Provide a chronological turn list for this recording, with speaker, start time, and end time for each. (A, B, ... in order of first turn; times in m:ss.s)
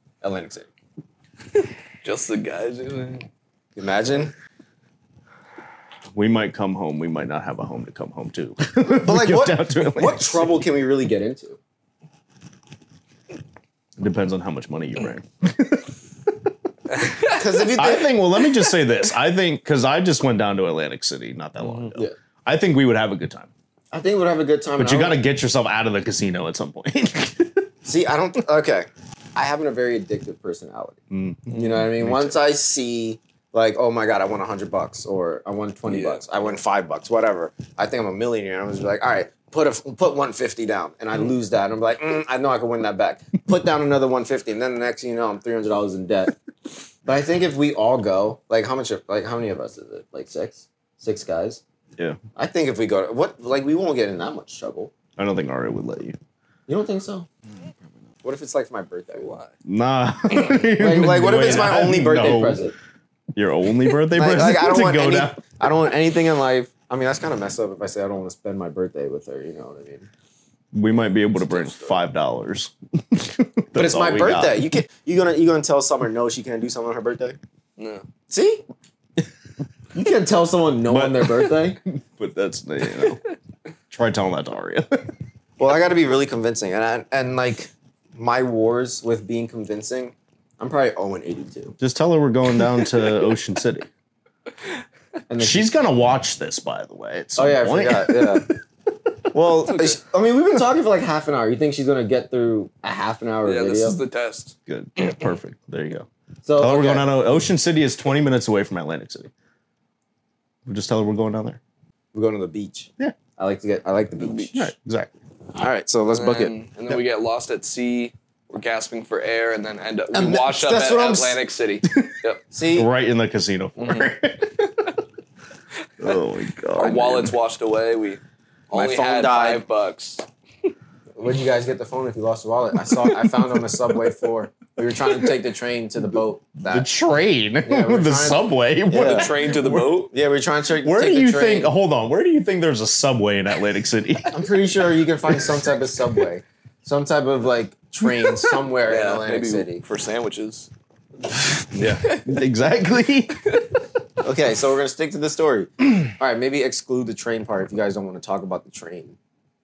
0:00.2-0:00.7 A
0:02.0-0:03.2 B
0:03.8-0:04.3 A
0:06.1-0:10.4 C
0:09.0-0:11.6 A
0:14.0-0:16.5 C
0:17.0-0:17.4 B
0:17.3-0:18.2 A
0:17.7-0:23.5 C
0:23.9-0:25.2 A
0:24.8-0:27.7 C
0:27.8-0:31.0 A
0:31.1-0:32.3 C
0:31.5-0:46.4 A
0:35.9-0:36.3 B
0:47.0-0:51.6 A
0:52.4-0:54.9 A
0:55.2-0:56.2 C
0:56.7-0:57.3 A
0:58.2-0:59.3 A
0:59.2-0:59.5 B
0:59.6-1:02.6 C
1:00.7-1:02.7 A
1:03.3-1:05.4 C
1:04.1-1:10.1 A
1:10.7-1:14.7 C
1:11.4-1:12.0 B
1:13.7-1:17.4 A
1:17.8-1:18.0 B
1:18.3-1:18.6 A
1:19.9-1:21.8 A
1:20.9-1:23.2 C
1:23.9-1:25.1 C
1:25.6-1:31.8 A
1:31.8-1:33.9 C
1:35.3-1:35.7 A
1:35.4-1:38.5 C
1:37.4-1:38.6 A
1:39.3-1:44.0 A
1:39.3-1:39.6 C
1:39.7-1:40.0 B
1:43.4-1:44.5 B
1:44.7-1:46.1 C
1:46.4-1:47.1 A
1:46.6-1:49.3 C
1:50.7-1:51.6 C
1:52.1-1:54.6 A
1:54.2-1:54.6 B
1:54.5-1:55.1 C
1:55.5-1:56.6 A
1:56.1-2:02.4 B
2:00.1-2:01.4 A
2:01.9-2:02.1 C
2:02.5-2:02.9 A
2:02.7-2:04.9 C
2:03.8-2:04.1 B
2:06.0-2:07.3 C
2:06.8-2:10.2 B
2:08.7-2:09.6 A
2:11.2-2:16.9 A
2:12.9-2:14.0 C
2:16.7-2:19.9 C
2:17.6-2:19.3 A
2:18.9-2:20.1 B
2:20.1-2:21.7 A
2:20.8-2:24.3 C
2:24.3-2:29.8 A
2:28.8-2:30.7 B
2:31.7-2:33.5 C
2:31.8-2:32.4 B
2:34.2-2:39.2 A